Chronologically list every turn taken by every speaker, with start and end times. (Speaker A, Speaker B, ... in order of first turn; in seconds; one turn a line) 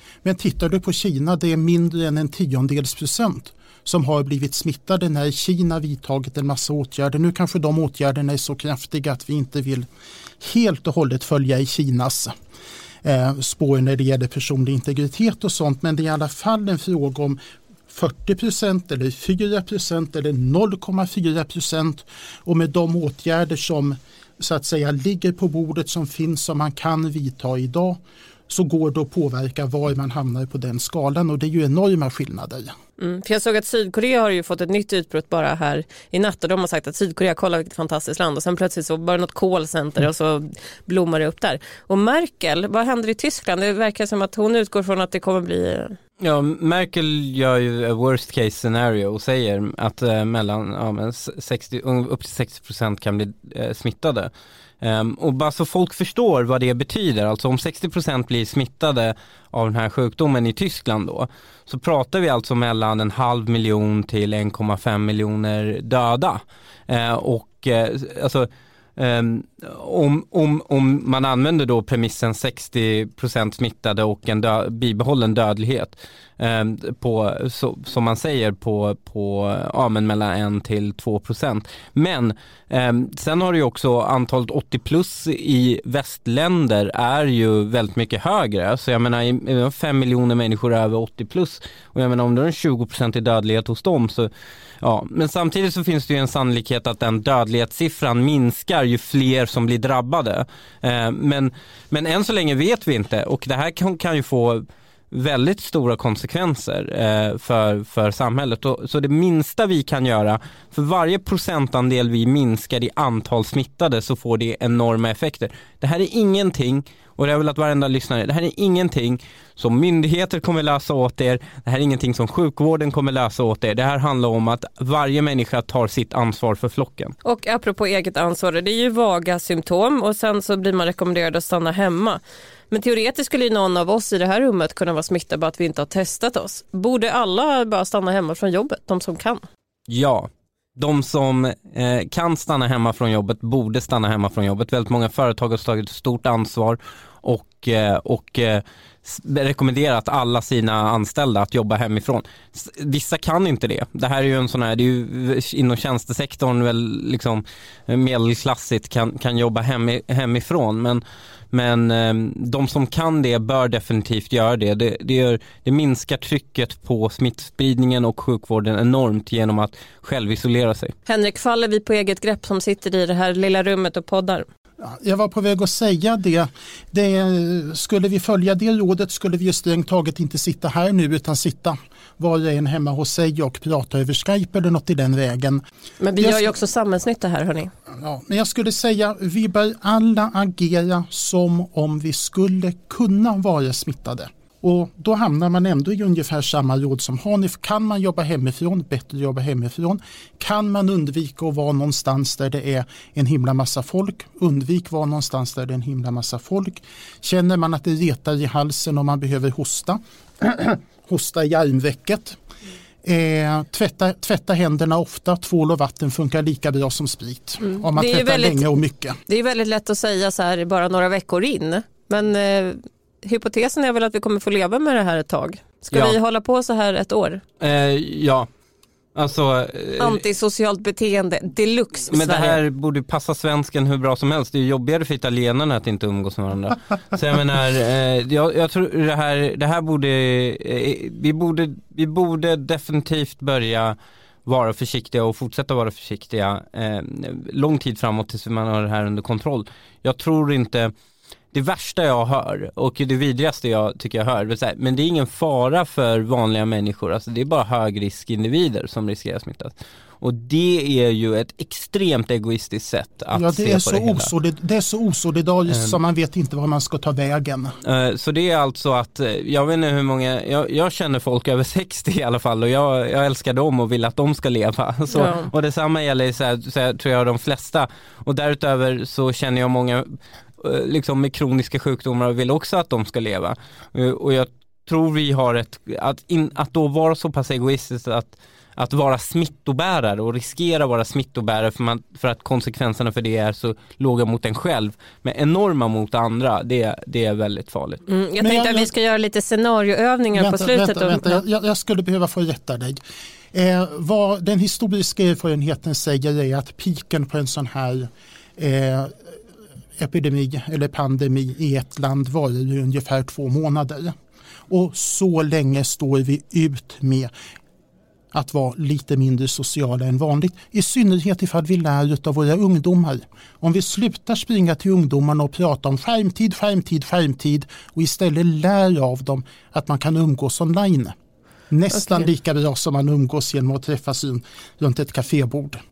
Speaker A: 0.2-9.9
Speaker A: 10.4-12.3
Speaker A: 13.0-17.4
Speaker A: 17.9-32.7
Speaker B: 33.0-46.0
Speaker C: 46.2-54.3
Speaker C: 54.8-94.3
Speaker C: 94.8-127.1
Speaker B: 127.2-139.4
Speaker C: 139.9-170.9
Speaker B: 171.1-174.4
Speaker A: 174.8-185.6
Speaker B: 186.0-187.7
Speaker A: 186.2-186.5
Speaker A: 187.9-212.4
Speaker A: 213.0-219.2
Speaker B: 217.6-218.7
Speaker B: 219.3-227.4
Speaker C: 227.6-228.5
Speaker C: 229.1-230.2
Speaker B: 230.0-232.6
Speaker C: 232.1-250.9
Speaker C: 251.5-264.3
Speaker A: 263.3-267.8
Speaker C: 267.8-298.0
Speaker B: 275.1-275.5
Speaker B: 298.1-301.4
Speaker A: 298.4-298.9
Speaker A: 300.3-303.0
Speaker A: 303.5-309.2
Speaker A: 310.0-314.1
Speaker A: 314.7-317.3
Speaker A: 318.3-331.1
Speaker A: 331.7-335.8